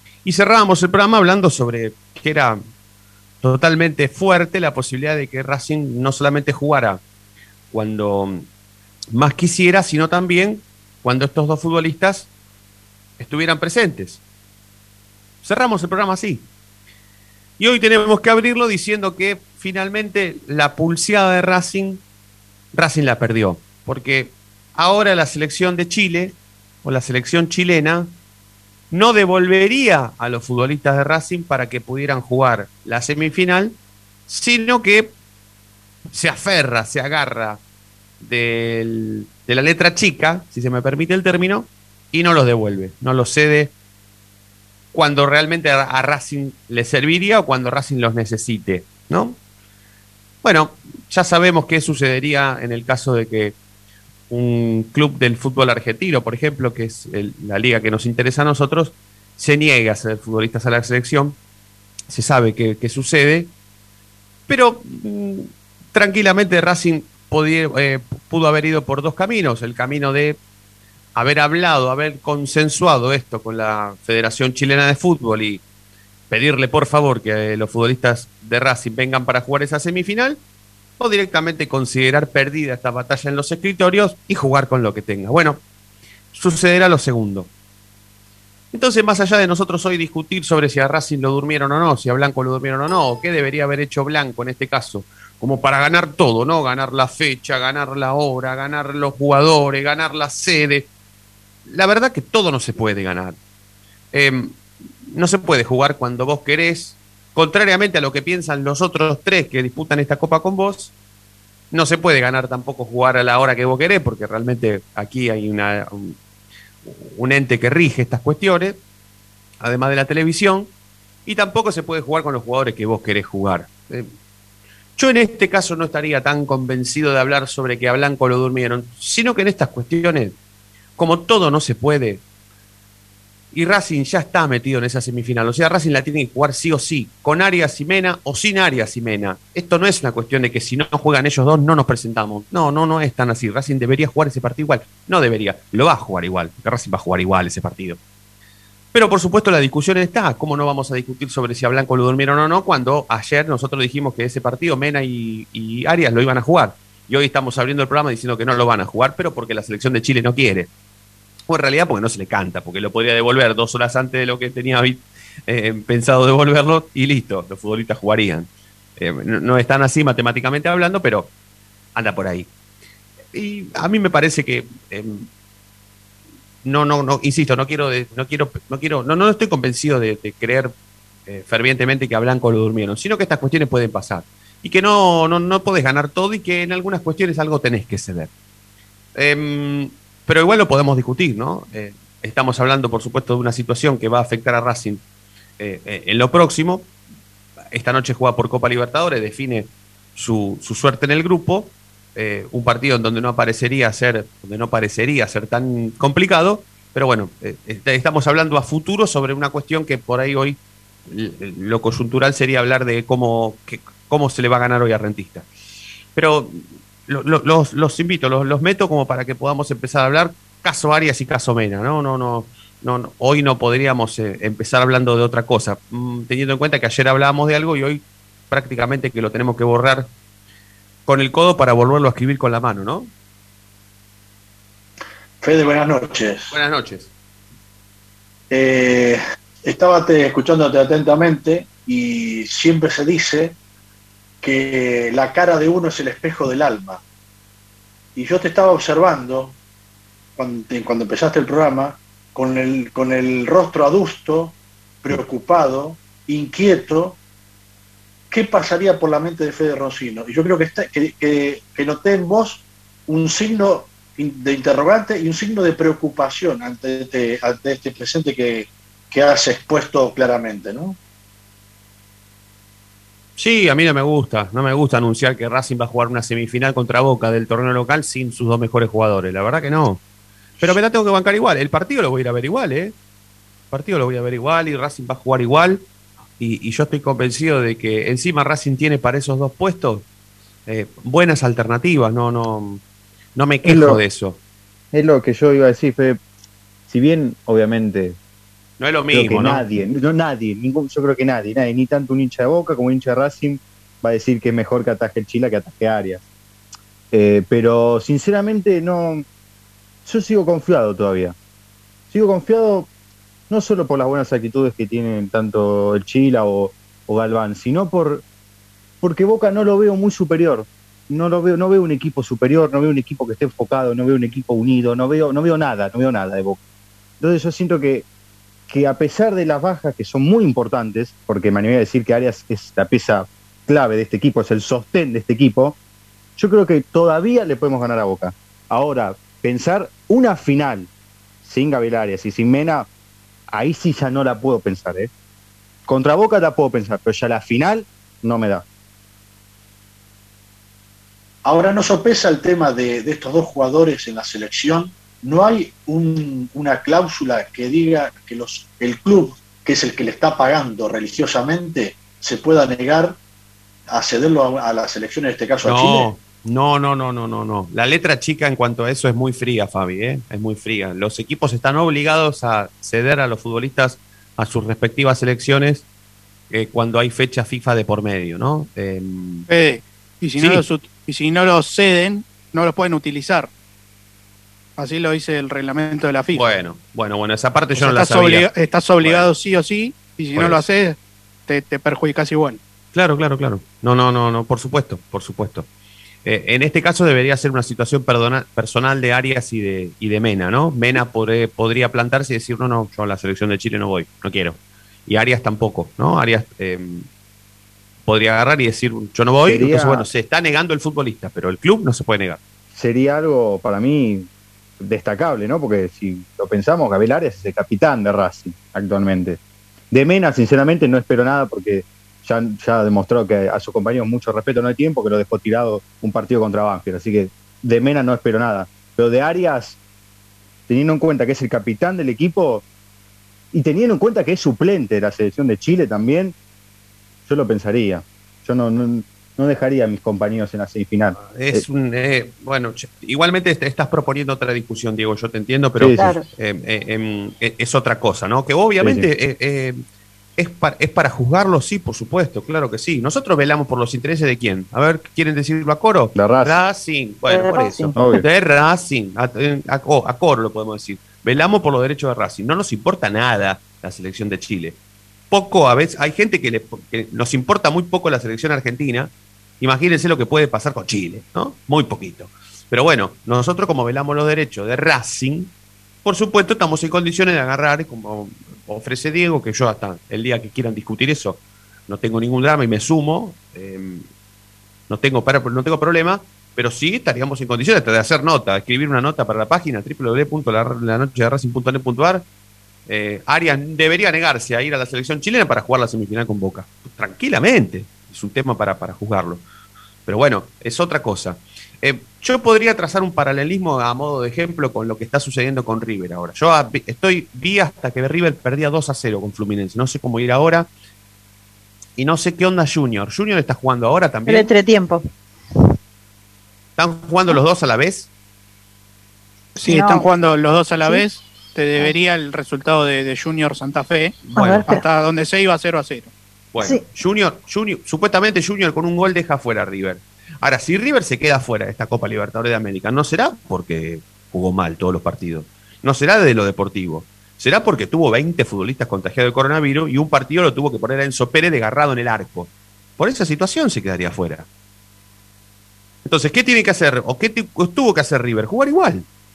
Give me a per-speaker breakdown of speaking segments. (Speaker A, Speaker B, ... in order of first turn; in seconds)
Speaker A: 0.2-2.6, 3.4-7.0, 7.7-8.5, 9.1-12.3, 13.2-14.2, 15.4-16.5, 17.6-22.0, 22.7-28.1, 28.9-33.8, 34.3-35.1, 36.1-37.6, 38.2-43.7, 44.9-49.4, 50.4-53.5, 54.3-61.4, 62.1-63.5, 64.5-70.4, 71.1-75.6, 76.3-80.4, 81.0-85.6, 86.3-87.5, 88.7-100.9, 101.7-103.4, 104.1-110.9, 111.7-116.2, 116.8-118.8, 119.6-120.7, 121.2-124.1, 125.0-130.3, 131.0-132.2, 133.5-148.0, 148.9-160.7, 161.5-171.3, 171.9-172.5, 173.3-175.3, 176.6-180.7, 181.3-188.3, 189.1-195.0, 195.6-196.9, 197.7-215.5, 216.1-230.1, 231.1-233.1, 236.5-237.1, 273.4-280.0, 280.6-282.9, 283.7-285.8, 286.4-290.0, 290.6-292.8, 293.4-294.4, 298.8-299.6, 365.6-375.8, 376.5-379.5, 380.4-380.6, 386.3-388.5, 389.0-389.3, 390.3-390.6, 392.9-395.7, 396.2-407.1, 408.1-412.4, 441.3-449.8, 450.4-464.8, 465.3-475.5, 476.0-484.1, 484.9-492.2, 492.9-499.4, 500.1-510.7, 512.0-514.5, 516.8-518.1, 524.2-524.7, 526.5-544.5, 546.0-549.1
Speaker B: 235.4-236.5, 238.5-243.6, 244.4-247.0, 248.1-249.6, 250.4-257.2, 258.3-271.0, 351.4-363.2, 363.9-366.1
Speaker C: 293.6-294.0, 294.9-296.2, 296.9-298.2, 299.1-306.2, 307.1-309.2, 310.0-311.3, 312.1-312.9, 313.5-318.2, 319.0-326.6, 327.2-328.1, 328.7-335.8, 336.4-340.9, 341.4-342.9, 343.5-345.1, 345.9-348.6, 409.4-410.1, 412.7-414.3, 414.8-419.4, 419.9-429.8, 430.7-432.6, 433.5-436.4, 437.2-441.6, 445.8-446.2, 448.8-449.1, 456.1-456.6, 457.9-458.2
Speaker D: 379.5-383.5, 384.8-386.4, 387.8-392.6, 519.5-526.1
Speaker E: 445.9-446.2, 457.3-458.0, 514.3-515.0, 519.6-520.1, 524.4-524.8